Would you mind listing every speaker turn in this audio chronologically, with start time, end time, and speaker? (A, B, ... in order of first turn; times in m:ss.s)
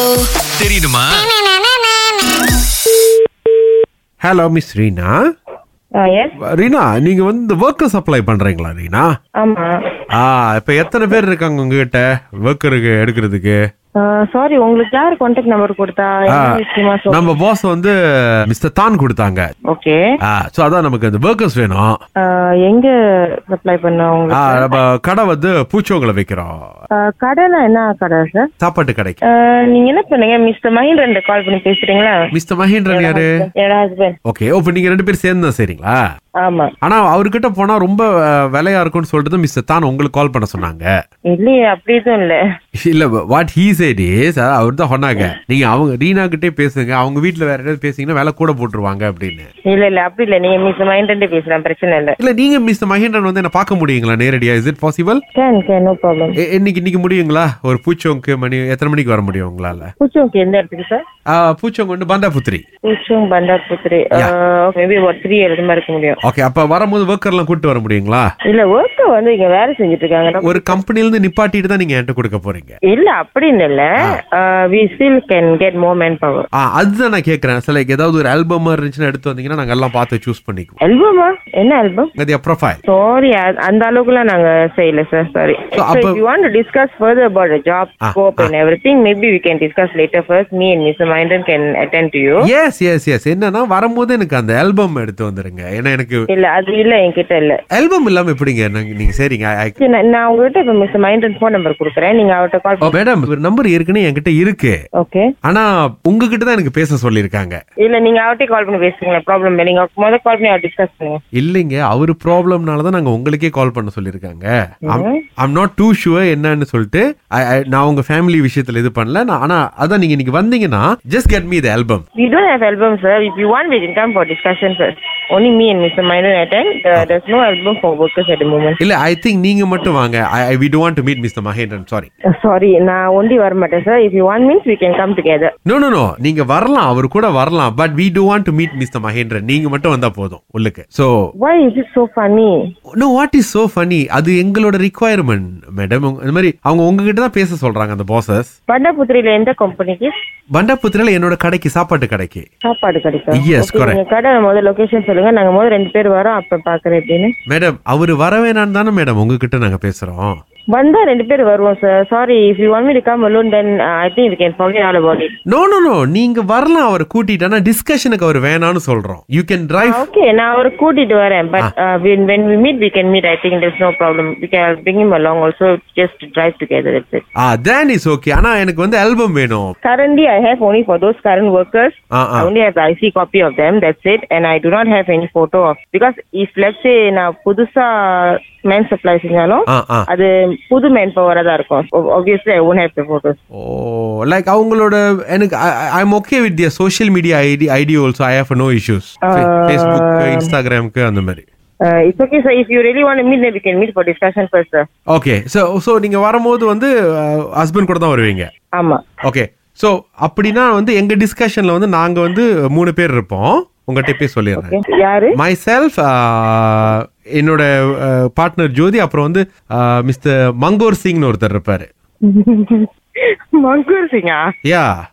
0:00.6-0:01.3 A
0:04.2-0:05.2 A
0:06.0-0:06.4 B
0:06.5-0:09.1 A
0:09.4-0:09.7 B
0:10.1-0:13.6 A
0:14.0-0:17.3 B
0:16.3-0:17.9 A
0:18.5-0:19.5 A
0:19.7-0:20.0 B
0:20.3-0:22.0 A
0:22.2-0:22.9 B
0:23.4-0:24.7 B
0:24.3-0:26.6 A
0:27.0-0:28.5 B
0:28.6-0:29.2 A
0:29.3-0:32.2 B
0:32.3-0:33.3 A
0:32.9-0:34.2 B
0:34.3-0:36.0 A
0:36.4-0:36.7 B
0:36.8-0:40.9 A
0:41.3-0:42.4 B
0:42.8-0:49.5 A
0:49.7-0:52.2 B
0:52.2-0:55.2 A
0:55.4-0:56.4 B
0:56.4-0:59.9 A
1:00.0-1:01.0 B
1:01.3-1:02.6 A
1:02.8-1:06.2 B
1:06.2-1:08.3 A
1:08.5-1:10.8 B
1:10.4-1:12.8 A
1:12.9-1:16.5 B
1:16.6-1:20.8 A
1:20.8-1:22.1 B
1:22.2-1:22.8 A
1:22.9-1:32.4 B
1:25.8-1:26.2 A
1:28.0-1:28.5 A
1:32.4-1:36.2 A
1:36.3-1:37.6 B
1:37.8-1:39.8 A
1:39.8-1:43.0 B
1:42.9-1:44.8 A
1:45.0-1:45.3 B
1:45.4-1:47.6 A
1:47.8-1:51.2 B
1:51.4-2:02.0 A
1:54.9-1:55.2 B
2:02.2-2:08.8 B
2:08.8-2:12.1 A
2:12.4-2:15.5 B
2:15.7-2:21.1 A
2:21.4-2:22.5 B
2:23.0-2:28.5 A
2:28.7-2:30.1 B
2:30.6-2:32.5 A
2:32.6-2:37.3 B
2:33.4-2:34.0 A
2:37.5-2:40.4 A
2:40.7-2:45.3 B
2:45.5-2:50.0 A
2:49.8-2:57.2 B
2:57.4-2:59.7 A
2:59.8-3:13.4 B
3:02.1-3:02.5 A
3:09.7-3:10.1 A
3:13.5-3:21.4 A
3:19.2-3:20.5 B
3:21.9-3:24.9 B
3:25.1-3:28.5 A
3:28.8-3:29.0 B
3:29.2-3:34.8 A
3:34.6-3:35.4 B
3:35.4-3:41.9 A
3:42.3-3:42.9 B
3:43.6-3:44.5 B
3:44.6-3:44.9 A